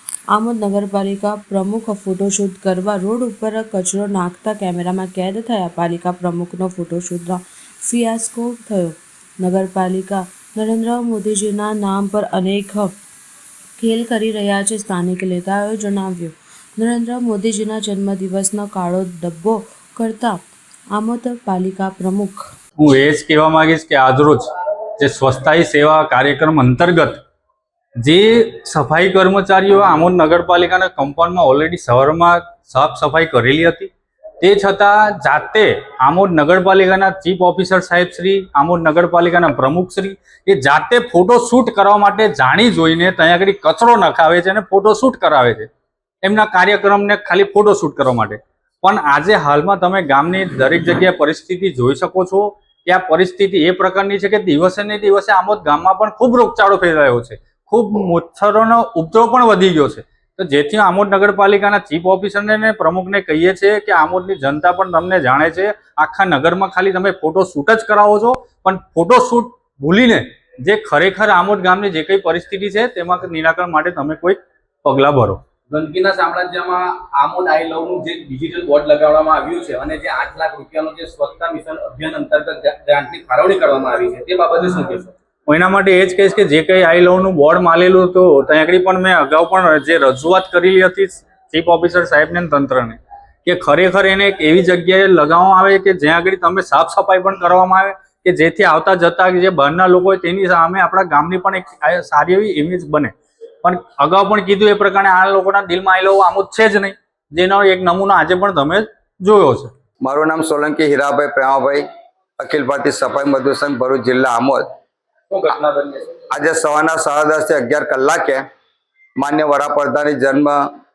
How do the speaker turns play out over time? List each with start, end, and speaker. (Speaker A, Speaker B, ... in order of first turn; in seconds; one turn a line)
Speaker A: 0.3-12.9
Speaker A: 13.8-20.4
Speaker A: 20.9-22.5
Speaker B: 22.8-27.2
Speaker B: 28.0-45.7
Speaker B: 46.2-75.4
Speaker C: 75.7-85.1
Speaker B: 85.5-109.7
Speaker D: 110.0-111.8
Speaker D: 112.4-114.7
Speaker C: 115.3-116.2
Speaker D: 116.3-118.4
Speaker D: 119.2-120.7